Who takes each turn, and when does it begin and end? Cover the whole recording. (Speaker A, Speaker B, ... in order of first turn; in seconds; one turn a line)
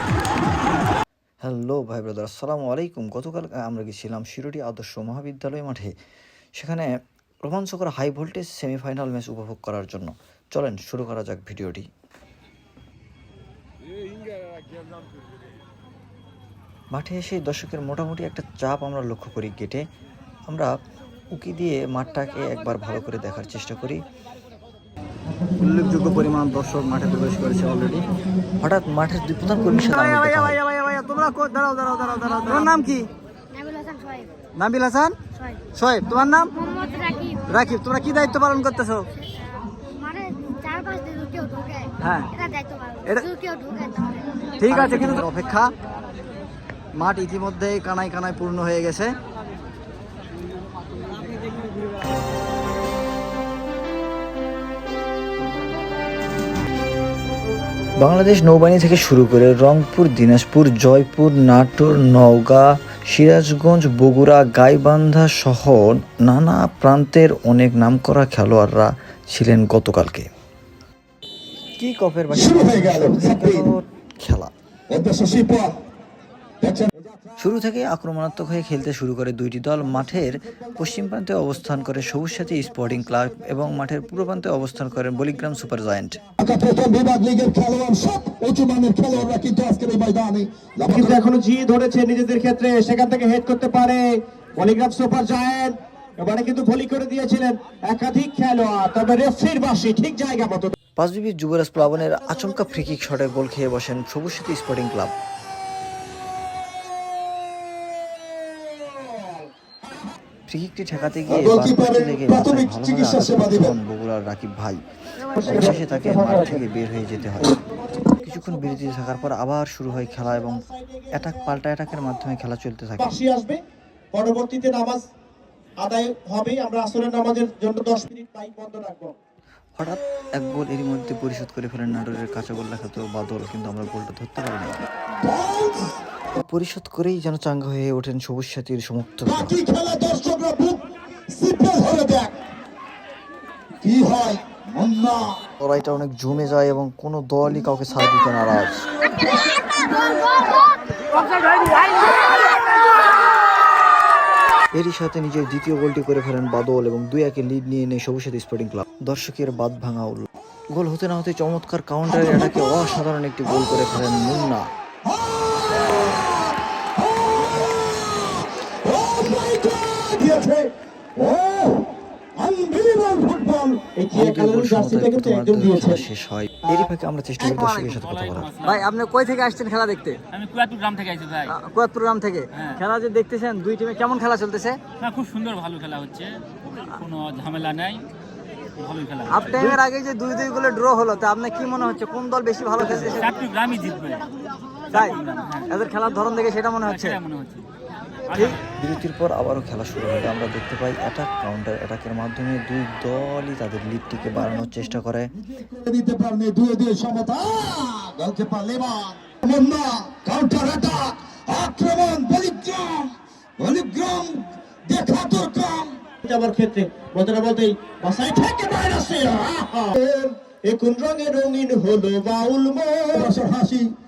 Speaker A: 1.4-6.0
Speaker A: 6.6-6.9
Speaker A: 7.4-11.9
Speaker A: 16.9-19.8
Speaker A: 21.3-24.0
Speaker B: 25.6-28.1
Speaker A: 28.6-30.6
Speaker B: 29.7-33.1
Speaker C: 33.5-34.3
Speaker B: 34.5-35.2
Speaker B: 35.7-36.5
Speaker C: 36.5-37.9
Speaker B: 37.5-39.1
Speaker C: 39.2-45.2
Speaker B: 42.0-42.3
Speaker B: 44.6-45.8
Speaker B: 47.0-49.2
Speaker A: 58.0-70.3
Speaker A: 71.8-74.5
Speaker D: 72.3-73.7
Speaker D: 74.9-75.8
Speaker D: 76.6-77.3
Speaker A: 77.4-86.2
Speaker D: 86.4-91.2
Speaker E: 90.9-94.0
Speaker E: 94.6-100.8
Speaker A: 101.0-105.1
Speaker A: 110.5-114.8
Speaker D: 111.3-113.7
Speaker E: 115.4-116.5
Speaker A: 115.4-117.6
Speaker D: 115.5-115.8
Speaker E: 117.5-118.7
Speaker A: 118.2-123.2
Speaker E: 119.9-121.6
Speaker E: 123.0-123.6
Speaker E: 124.1-125.0
Speaker E: 125.8-129.2
Speaker A: 129.8-134.9
Speaker D: 135.2-136.0
Speaker A: 136.4-139.6
Speaker D: 139.3-142.4
Speaker D: 143.8-145.4
Speaker A: 145.6-148.8
Speaker D: 149.1-150.4
Speaker A: 154.8-164.7
Speaker D: 162.2-162.7
Speaker D: 165.1-166.5
Speaker D: 167.0-173.8
Speaker E: 174.0-176.1
Speaker A: 174.1-178.5
Speaker B: 177.4-178.0
Speaker F: 178.0-178.9
Speaker B: 178.6-180.2
Speaker F: 180.3-181.6
Speaker B: 181.5-184.8
Speaker F: 182.5-182.8
Speaker F: 185.0-188.1
Speaker F: 188.8-189.8
Speaker B: 189.3-193.4
Speaker F: 192.9-194.3
Speaker F: 194.9-195.7
Speaker B: 194.9-197.2
Speaker F: 196.9-197.7
Speaker B: 198.3-198.6
Speaker F: 198.3-198.6
Speaker A: 198.8-205.3
Speaker D: 205.4-216.0
Speaker E: 216.2-223.3
Speaker D: 223.1-223.9